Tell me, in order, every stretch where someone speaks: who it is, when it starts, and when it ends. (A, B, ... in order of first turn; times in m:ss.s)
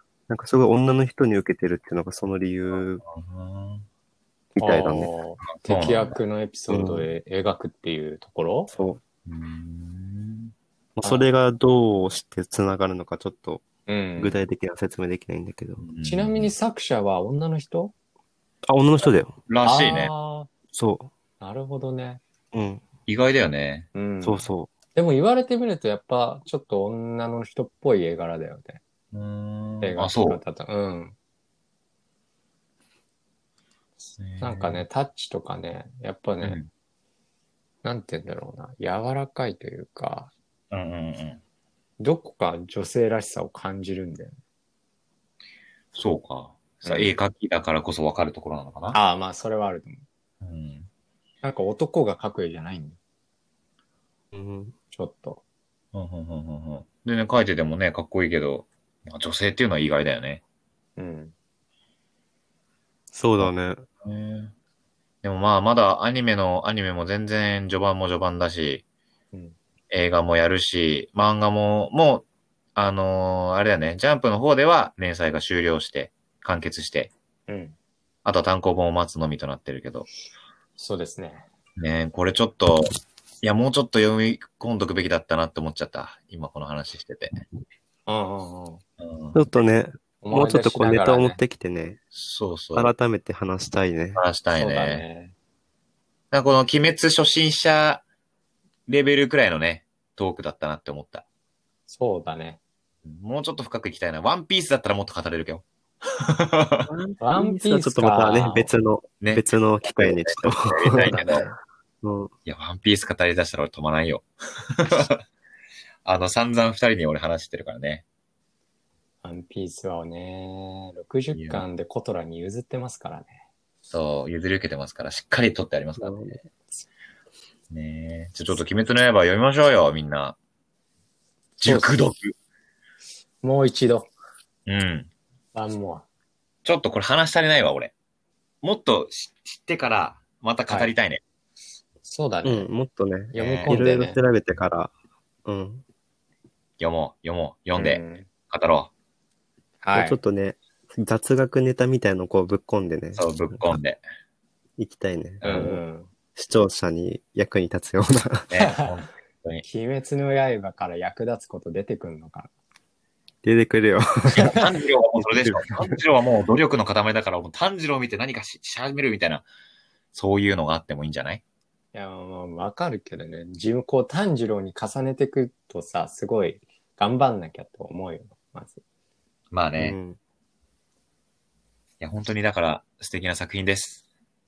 0:00.3-0:03.0 A
0:03.0-0:03.9 B
0:04.6-0:05.1 A
0:04.6-0:08.7 C
0:05.5-0:06.2 B
0:06.7-0:07.1 A
0:08.7-0:09.0 A
0:09.3-0:10.5 B
0:11.0-0:13.6 A
0:11.0-0:11.3 C
0:13.9-0:14.4 C
0:14.2-0:15.8 A
0:15.8-0:16.5 B
0:16.0-0:17.9 C
0:18.7-0:19.4 A
0:19.5-0:20.1 B
0:19.6-0:20.5 C
0:20.7-0:21.1 A
0:21.4-0:22.2 C
0:22.5-0:22.8 A
0:23.1-0:23.9 B
0:24.0-0:28.8 C
0:24.2-0:24.7 A
0:29.1-0:30.4 B
0:29.8-0:31.2 C
0:34.2-0:34.8 B
0:34.4-0:36.6 C
0:36.4-0:36.7 B
0:37.8-0:40.3 C
0:40.7-0:41.4 B
0:42.0-0:44.4 C
0:45.9-0:49.0 B
0:46.8-0:47.1 C
0:48.9-0:50.0 C
0:50.4-0:50.9 B
0:51.4-0:53.0 C
0:54.3-0:54.7 A
0:54.9-0:55.4 C
0:55.9-1:00.4 B
1:01.0-1:01.3 C
1:03.1-1:03.8 A
1:04.0-1:04.5 B
1:05.2-1:08.8 B
1:09.9-1:12.2 B
1:12.8-1:17.1 B
1:17.5-1:17.8 C
1:18.2-1:20.1 B
1:20.8-1:21.5 C
1:21.8-1:27.4 B
1:28.1-1:28.8 C
1:29.0-1:29.4 B
1:29.3-1:32.0 A
1:30.2-1:31.4 C
1:32.1-1:32.9 B
1:32.8-1:34.2 A
1:34.2-1:35.0 B
1:34.5-1:35.3 C
1:36.3-1:38.0 B
1:38.9-1:41.2 B
1:41.9-1:42.6 C
1:43.0-1:45.6 B
1:46.2-1:46.9 B
1:46.8-1:51.4 A
1:47.2-1:48.7 C
1:49.2-1:51.4 B
1:50.9-1:51.6 C
1:52.0-1:52.3 A
1:52.5-1:55.2 B
1:56.0-1:58.0 B
1:59.2-2:03.4 C
2:01.3-2:01.7 B
2:03.9-2:06.4 B
2:06.0-2:06.4 A
2:07.7-2:10.4 B
2:11.6-2:12.4 B
2:11.6-2:12.0 C
2:13.4-2:14.1 C
2:14.7-2:15.1 B
2:15.6-2:16.1 C
2:16.6-2:17.9 B
2:18.6-2:21.2 B
2:22.0-2:22.7 C
2:22.4-2:24.9 A
2:23.3-2:24.2 C
2:23.4-2:23.8 B
2:25.4-2:25.8 A
2:26.8-2:28.9 B
2:27.8-2:28.3 C
2:29.8-2:30.2 C
2:29.9-2:33.8 A
2:33.2-2:34.0 B
2:34.8-2:35.8 A
2:35.4-2:35.8 B
2:35.4-2:36.1 C
2:36.4-2:38.5 A
2:38.5-2:39.6 B
2:38.6-2:39.1 C
2:39.6-2:42.5 C
2:43.4-2:46.0 A
2:44.3-2:49.4 B
2:50.1-2:51.4 B
2:51.9-2:58.8 C
2:59.5-3:00.0 B
2:59.8-3:00.2 A
3:02.0-3:04.0 B